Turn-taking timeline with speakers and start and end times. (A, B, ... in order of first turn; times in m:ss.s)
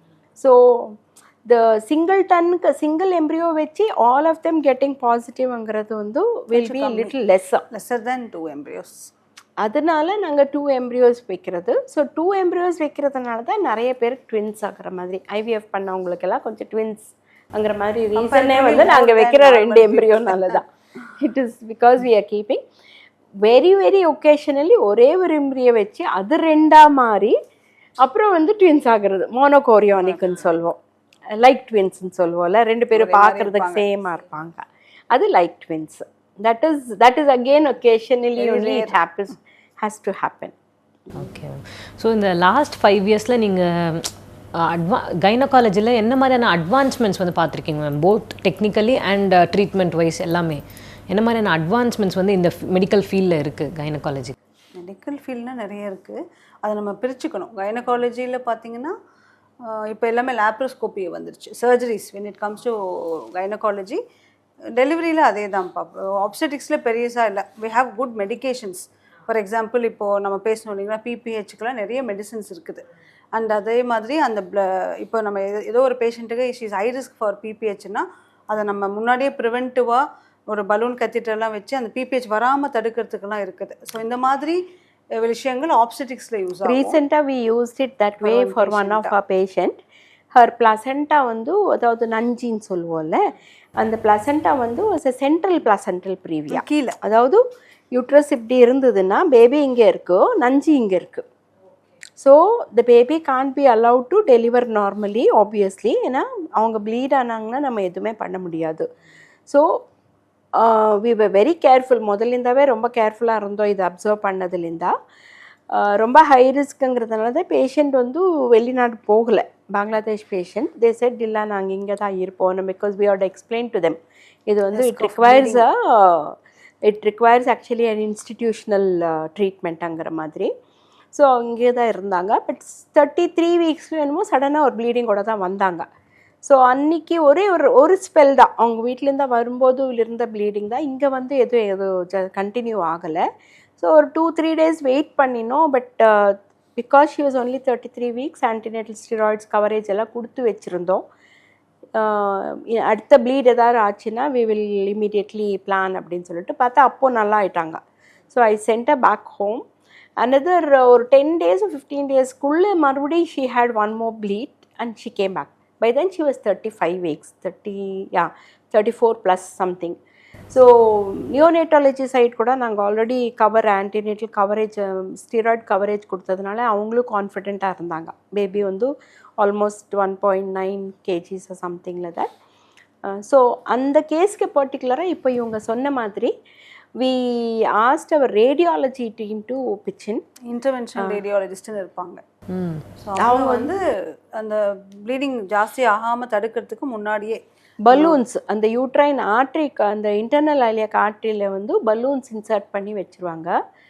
0:00.4-0:07.6 A
0:06.5-0:07.1 B
0:07.7-0:09.1 B
0:09.6-0:22.6 A
0:18.2-0:20.6 B
0:23.4-0:27.4 A
0:28.0-0:30.8 A
0:31.4-0:40.5 A
0:32.9-0:33.9 B
0:38.4-0:39.0 B
0:41.2-0:54.3 C
0:54.8-0:58.9 B
0:59.6-1:04.0 B
1:04.8-1:12.8 B
1:13.3-1:24.6 B
1:25.2-1:27.0 B
1:26.6-1:29.8 A
1:28.2-1:29.1 B
1:30.3-1:33.2 A
1:33.8-1:37.4 A
1:36.5-1:37.0 B
1:37.9-1:41.2 A
1:42.2-1:48.9 A
1:49.5-1:49.8 A
1:50.6-1:54.9 A
1:55.7-2:10.5 A
2:04.7-2:05.6 B
2:11.1-2:15.8 A
2:16.4-2:23.2 A
2:23.8-2:31.0 A
2:32.0-2:37.8 A
2:38.3-2:39.6 A
2:40.2-2:50.0 A
2:50.5-3:02.3 A
3:03.1-3:06.3 A
3:07.0-3:10.2 A
3:10.5-3:12.2 B
3:12.5-3:12.8 C
3:13.0-3:13.8 B
3:13.2-3:13.7 A
3:14.4-3:18.2 B
3:17.9-3:23.6 A